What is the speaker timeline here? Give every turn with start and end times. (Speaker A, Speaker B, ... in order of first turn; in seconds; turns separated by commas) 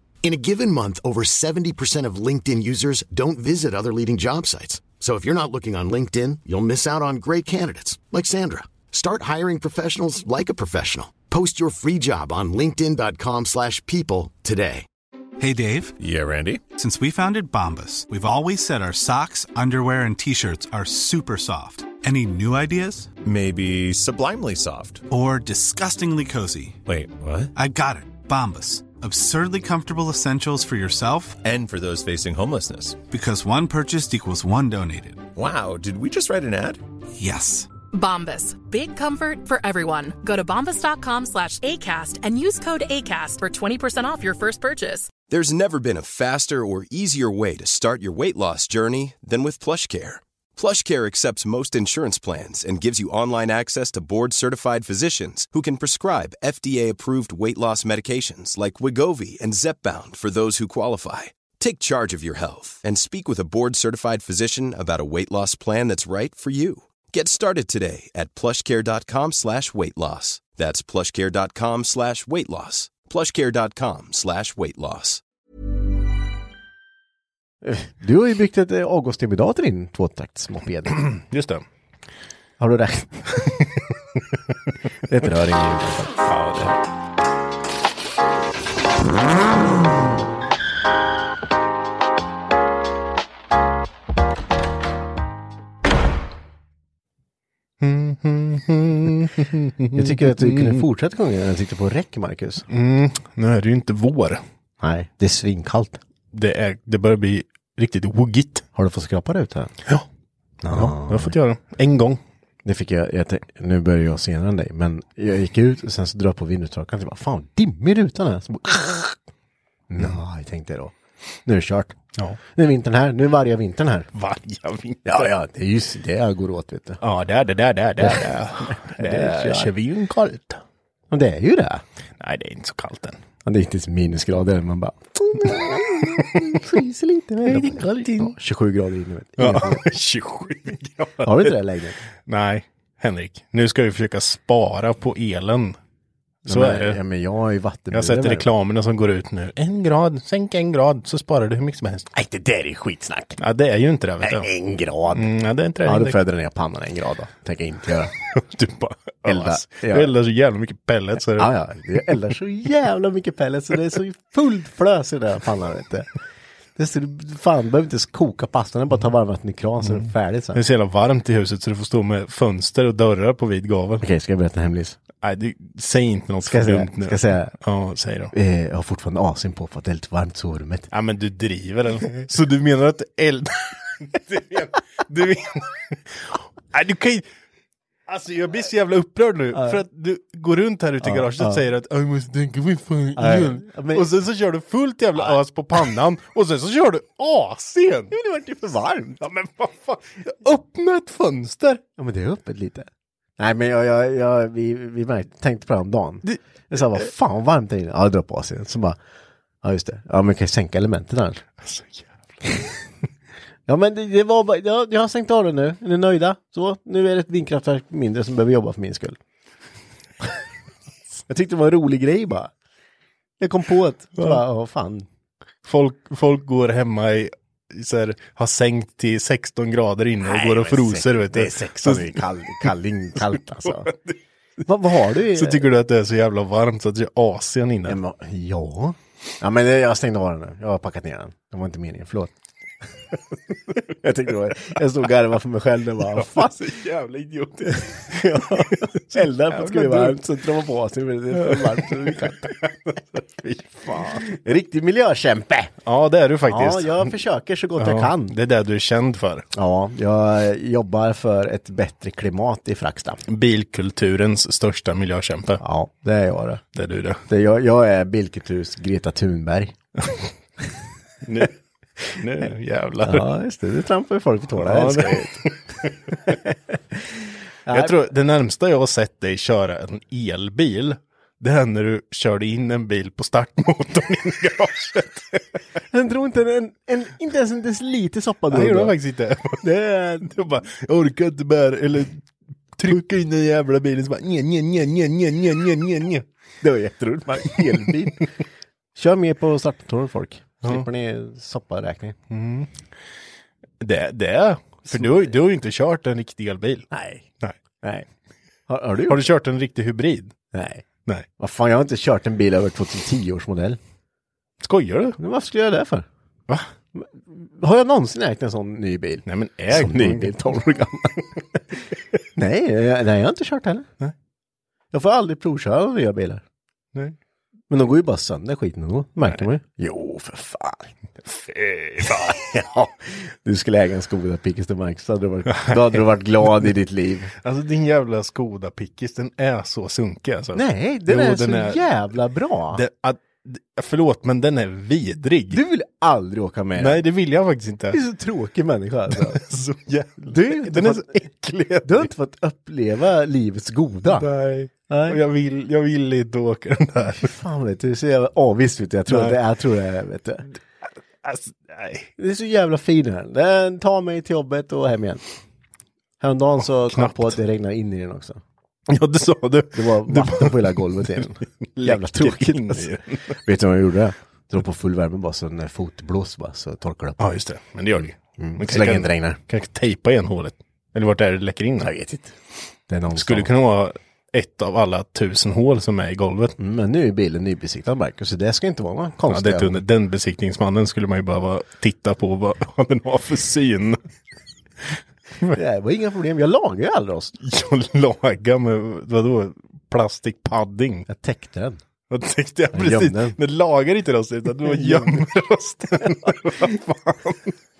Speaker A: 0.2-14.8, Speaker B: 15.4-15.9, Speaker C: 16.0-16.6, Speaker B: 16.7-23.1, Speaker C: 23.2-25.0, Speaker B: 25.1-26.8, Speaker C: 26.9-27.5, Speaker B: 27.5-31.4, Speaker C: 31.4-33.0, Speaker B: 33.1-35.2, Speaker C: 35.4-36.8, Speaker B: 37.1-37.7, Speaker D: 37.9-45.1, Speaker E: 45.3-75.2, Speaker F: 77.6-81.1, Speaker G: 81.0-81.6, Speaker F: 82.6-83.4, Speaker F: 85.1-86.7, Speaker G: 86.3-86.8, Speaker G: 97.8-100.8, Speaker F: 99.9-102.7, Speaker G: 102.7-104.4, Speaker F: 104.8-106.0, Speaker G: 106.3-108.6, Speaker F: 108.7-109.7, Speaker F: 110.6-111.3, Speaker G: 110.7-112.2, Speaker F: 112.6-119.2, Speaker F: 119.9-120.9, Speaker F: 121.5-122.0, Speaker F: 122.5-124.1, Speaker G: 124.1-125.3, Speaker F: 125.0-127.0, Speaker G: 127.0-130.6, Speaker F: 128.0-129.7, Speaker F: 131.1-131.8, Speaker G: 132.2-133.2, Speaker F: 133.4-139.8, Speaker G: 135.5-136.6, Speaker G: 137.4-138.3, Speaker G: 139.4-141.6, Speaker F: 141.2-142.0, Speaker G: 142.2-145.8, Speaker F: 146.4-148.5, Speaker G: 146.5-147.0, Speaker G: 147.9-152.1, Speaker F: 152.1-153.4, Speaker G: 153.4-154.5, Speaker F: 154.2-155.3, Speaker G: 155.1-156.2, Speaker F: 155.8-158.1, Speaker G: 158.3-161.5, Speaker F: 159.2-160.1, Speaker F: 161.4-166.1, Speaker F: 166.8-170.6, Speaker G: 169.9-174.0, Speaker F: 174.0-175.0, Speaker G: 175.2-178.3, Speaker F: 176.4-177.5, Speaker F: 178.3-180.9, Speaker G: 180.9-187.3, Speaker G: 188.1-198.1, Speaker F: 191.0-191.6, Speaker F: 193.2-194.1, Speaker F: 198.1-199.2, Speaker G: 199.2-201.8, Speaker F: 202.0-209.0, Speaker F: 209.6-211.4, Speaker G: 211.6-212.1, Speaker F: 213.7-219.2, Speaker F: 221.3-222.5, Speaker F: 223.4-225.1, Speaker G: 225.6-232.7, Speaker F: 230.2-233.9, Speaker G: 233.2-234.1, Speaker F: 234.7-235.6, Speaker G: 235.3-238.0, Speaker F: 237.9-242.3, Speaker F: 243.8-246.7, Speaker G: 246.0-250.2, Speaker F: 247.7-252.6, Speaker G: 251.3-254.3, Speaker F: 253.8-255.7, Speaker G: 255.8-257.1, Speaker F: 256.5-258.4, Speaker G: 257.8-259.5, Speaker F: 259.5-263.2, Speaker G: 263.3-265.6, Speaker F: 265.6-266.6, Speaker G: 266.7-267.2, Speaker F: 267.3-269.7, Speaker G: 271.2-271.5, Speaker G: 272.1-273.3, Speaker F: 273.0-275.5, Speaker G: 274.6-276.4, Speaker F: 276.1-276.6, Speaker F: 277.1-278.0, Speaker G: 277.7-285.4, Speaker F: 285.9-288.9, Speaker G: 288.5-296.2, Speaker F: 289.6-290.3, Speaker F: 296.6-298.3, Speaker F: 298.9-302.2, Speaker G: 302.3-302.7, Speaker G: 303.8-306.9, Speaker F: 304.9-305.1, Speaker F: 306.9-307.2, Speaker F: 308.7-309.3, Speaker G: 309.1-310.3, Speaker F: 310.5-310.8, Speaker F: 311.4-313.8, Speaker G: 314.6-315.2, Speaker F: 315.2-316.1, Speaker F: 316.9-321.8, Speaker G: 319.2-320.6, Speaker F: 322.4-323.9, Speaker F: 324.9-326.4, Speaker F: 327.7-330.9, Speaker G: 331.4-332.3, Speaker F: 332.0-337.3, Speaker G: 337.4-341.8, Speaker F: 340.5-342.8, Speaker G: 342.7-345.6, Speaker F: 345.5-347.0, Speaker G: 346.8-348.0, Speaker F: 347.9-349.4, Speaker G: 349.1-352.1, Speaker F: 350.3-351.2, Speaker F: 351.8-354.3, Speaker G: 354.1-357.3, Speaker F: 354.9-355.2, Speaker F: 357.1-360.5, Speaker G: 359.1-359.4, Speaker G: 361.2-362.1, Speaker F: 362.2-365.2, Speaker F: 366.2-368.4, Speaker G: 366.9-367.4, Speaker G: 368.9-373.4, Speaker F: 369.7-377.2, Speaker G: 377.2-381.9, Speaker F: 378.4-379.4, Speaker F: 381.8-382.3, Speaker F: 382.9-383.5, Speaker G: 383.1-386.6, Speaker F: 386.6-389.8, Speaker G: 389.3-394.0, Speaker F: 395.4-397.4, Speaker G: 397.4-401.1, Speaker F: 401.1-401.8, Speaker G: 402.1-407.6, Speaker F: 402.7-403.4, Speaker F: 404.6-405.2